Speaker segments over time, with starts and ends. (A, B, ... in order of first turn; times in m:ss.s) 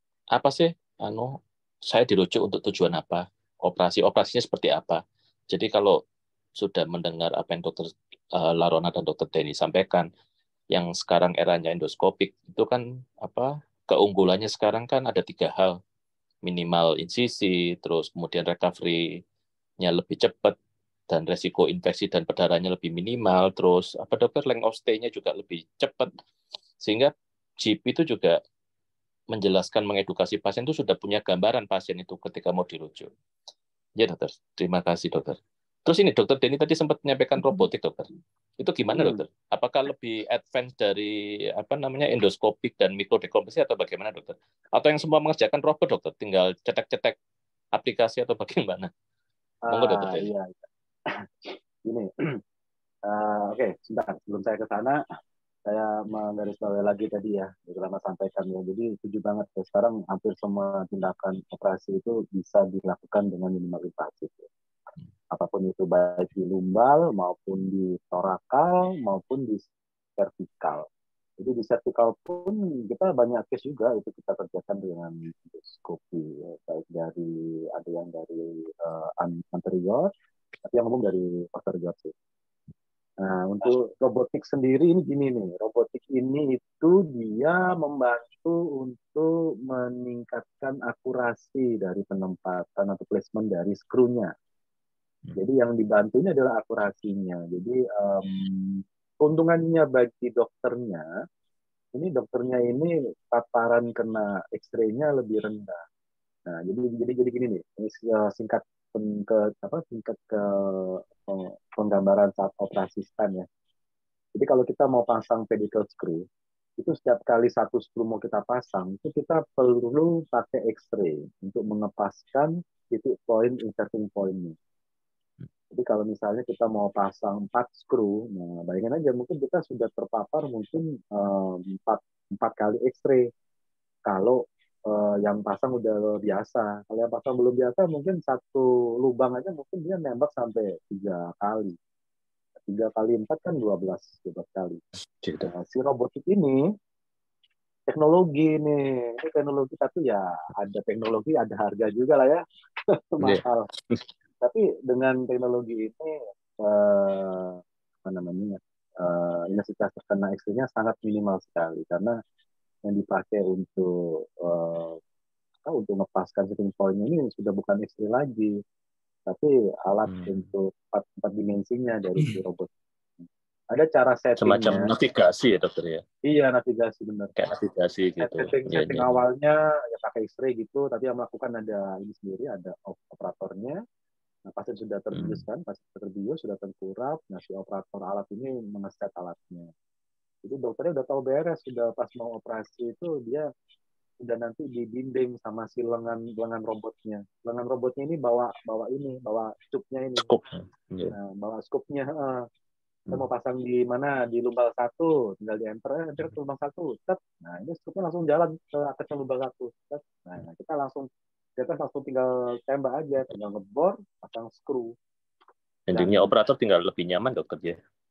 0:00.3-0:06.0 A
0:06.6-0:10.1 A
0:10.7-0:15.8 A
0:16.4-0:19.2 A
0:19.8-0:20.6 A
0:21.1-0:26.1 A
0:26.8-0:28.4 A
0:29.3-0:33.1 A
0:34.0-0:47.2 A
0:38.9-0:39.2 B
0:47.8-0:48.9 A
0:49.6-0:50.5 B
0:49.7-0:50.3 A
0:51.1-0:52.4 B
0:53.0-0:55.0 B
0:55.7-1:04.5 B
1:05.3-1:09.6 B
1:10.2-1:10.8 B
1:11.4-1:20.1 B
1:20.7-1:22.1 B
1:23.2-1:34.3 B
1:35.4-1:41.0 B
1:41.9-1:45.8 B
1:46.5-1:53.4 B
1:54.3-1:56.2 B
1:56.8-2:04.5 B
2:05.7-2:13.2 B
2:14.1-2:21.8 B
2:22.6-2:24.8 B
2:25.2-2:25.5 A
2:25.4-2:26.6 B
2:27.9-2:32.4 B
2:32.9-2:33.7 B
2:33.2-2:34.0 A
2:34.4-2:42.1 B
2:42.9-2:45.0 B
2:45.6-2:48.5 B
2:49.3-2:52.7 B
2:50.1-2:50.4 A
2:53.7-2:54.9 B
2:54.4-2:56.0 A
2:56.2-2:57.4 B
2:57.4-2:59.2 A
2:58.2-3:03.8 B
3:04.5-3:09.7 B
3:05.1-3:05.4 A
3:10.4-3:13.4 B
3:14.2-3:20.3 B
3:20.2-3:21.1 A
3:21.1-3:22.4 B
3:23.1-3:34.9 B
3:35.9-3:37.8 A
3:35.9-3:36.3 B